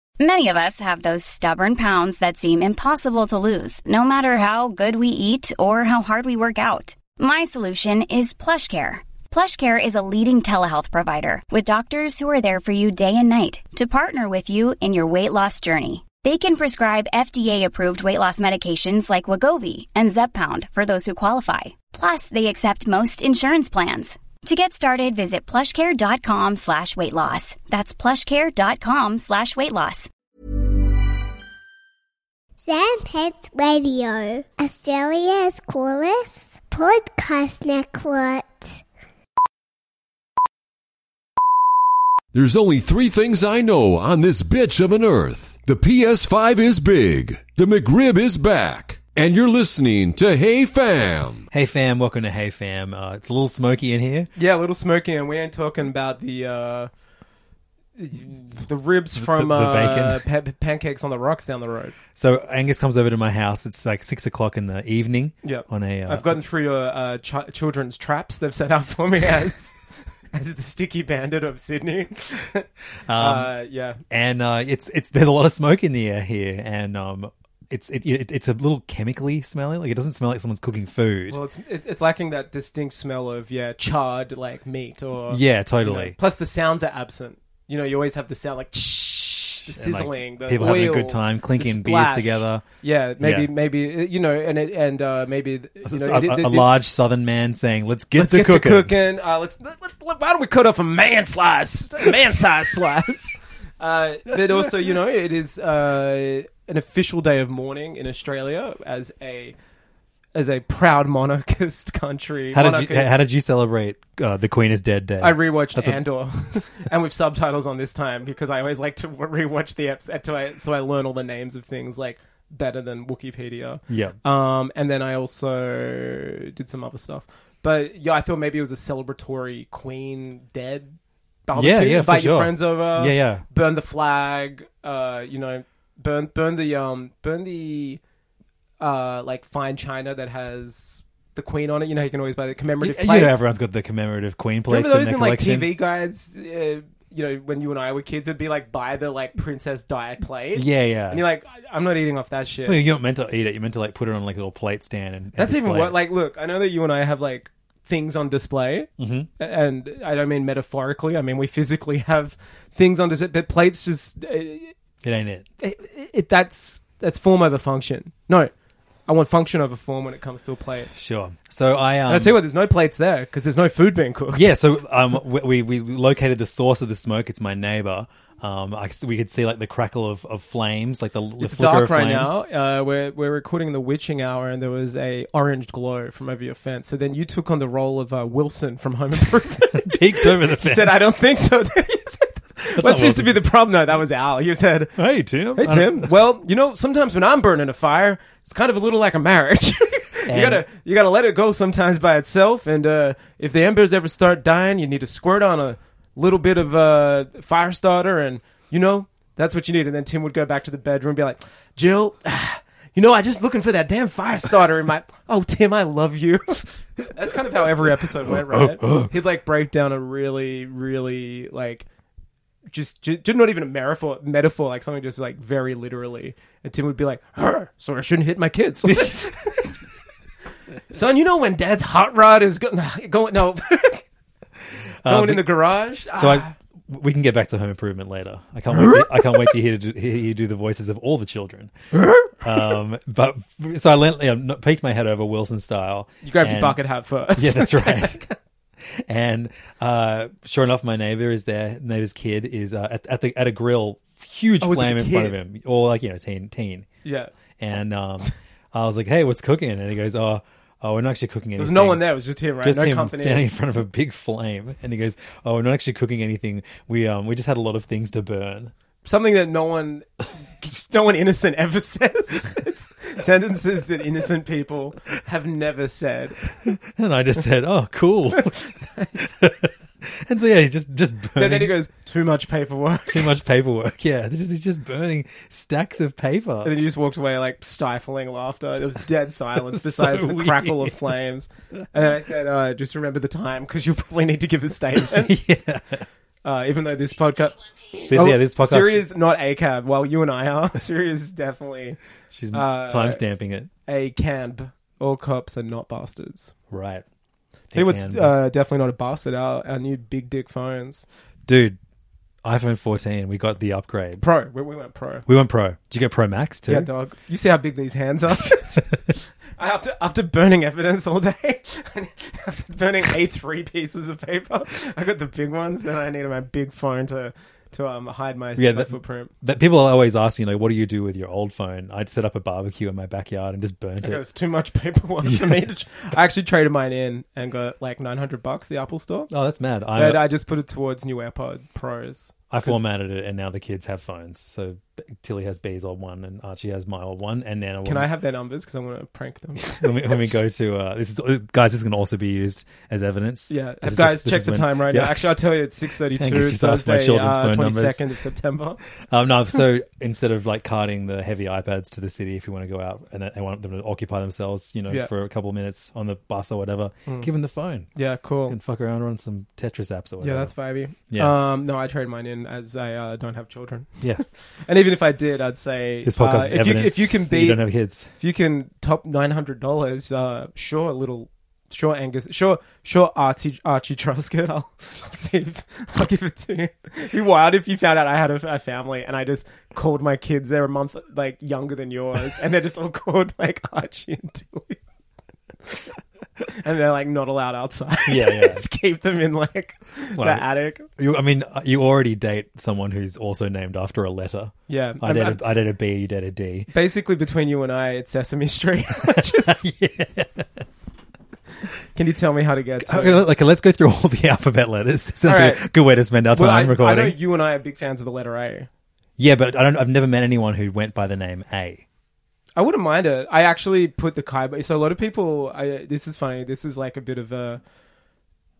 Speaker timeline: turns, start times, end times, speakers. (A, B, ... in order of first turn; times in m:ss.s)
0:00.2-0:30.1 A
0:32.6-0:38.8 B
0:42.3-0:51.4 C
0:51.5-0:54.3 D
0:54.4-0:56.9 E
0:58.0-1:01.9 E
0:59.2-1:00.2 D
1:02.1-1:06.4 D
1:05.4-1:09.8 E
1:10.3-1:14.0 E
1:13.1-1:13.5 D
1:14.1-1:21.4 D
1:21.3-1:36.7 E
1:25.3-1:26.2 D
1:29.7-1:32.6 D
1:33.2-1:33.5 D
1:35.8-1:38.9 D
1:38.2-1:49.5 E
1:50.3-1:53.1 E
1:52.5-1:56.0 D
1:55.2-2:11.0 E
2:03.9-2:04.2 D
2:11.5-2:18.0 E
2:11.5-2:13.4 D
2:18.8-2:23.4 E
2:22.8-2:25.7 D
2:24.7-2:32.8 E
2:30.5-2:31.2 D
2:32.6-2:36.0 D
2:35.4-2:44.7 E
2:39.0-2:39.3 D
2:45.0-2:45.4 D
2:45.6-2:48.5 E
2:49.1-2:50.9 E
2:50.9-2:52.4 D
2:52.0-2:54.5 E
2:54.3-3:02.4 D
3:01.4-3:15.0 E
3:09.6-3:11.0 D
3:12.8-3:13.4 D
3:15.0-3:16.2 D
3:15.6-3:41.8 E
3:20.3-3:20.6 D
3:38.3-3:39.1 D
3:42.7-3:49.7 E
3:50.9-3:54.0 E
3:55.0-3:55.6 D
3:55.0-3:56.5 E
3:56.1-4:01.7 D
4:02.0-4:02.3 E
4:02.2-4:06.8 D
4:06.2-4:08.4 E
4:07.4-4:08.2 D
4:08.9-4:16.9 D
4:14.6-4:15.4 E
4:17.0-4:17.3 E
4:17.6-4:28.7 D
4:21.6-4:23.4 E
4:29.0-4:30.0 E
4:30.6-4:36.5 E
4:36.6-4:38.6 D
4:38.5-4:39.3 E
4:39.4-4:41.8 D
4:41.4-4:43.3 E
4:43.1-4:46.8 D
4:46.6-4:55.4 E
4:49.7-4:51.2 D
4:55.0-4:56.0 D
4:56.4-5:02.0 E
4:58.1-4:59.0 D
5:02.3-5:03.7 D
5:02.5-5:03.2 E
5:03.9-5:06.5 E
5:06.7-5:07.0 D
5:07.7-5:08.3 D
5:07.7-5:11.0 E
5:11.4-5:11.8 D
5:12.4-5:14.2 D
5:14.2-5:15.2 E
5:15.2-5:16.9 D
5:16.7-5:29.3 E
5:28.6-5:34.2 D
5:34.0-5:39.3 E
5:35.2-5:35.6 D
5:39.3-5:40.2 D
5:39.9-5:42.8 E
5:42.5-5:48.1 D
5:47.8-5:50.3 E
5:49.6-5:55.3 D
5:53.5-5:58.8 E
5:56.1-5:58.0 D
5:59.1-6:07.9 D
6:07.9-6:08.6 E
6:08.5-6:10.5 D
6:10.2-6:14.0 E
6:11.1-6:11.4 D
6:14.7-6:17.6 E
6:16.0-6:18.1 D
6:18.2-6:34.8 E
6:36.4-6:40.9 E
6:38.1-6:38.6 D
6:40.2-6:46.7 D
6:44.7-6:45.4 E
6:46.7-6:49.6 E
6:49.1-6:50.6 D
6:51.9-6:53.2 E
6:52.8-6:57.2 D
6:55.2-6:55.7 E
6:56.3-6:58.7 E
6:59.2-7:01.8 D
7:02.6-7:07.6 E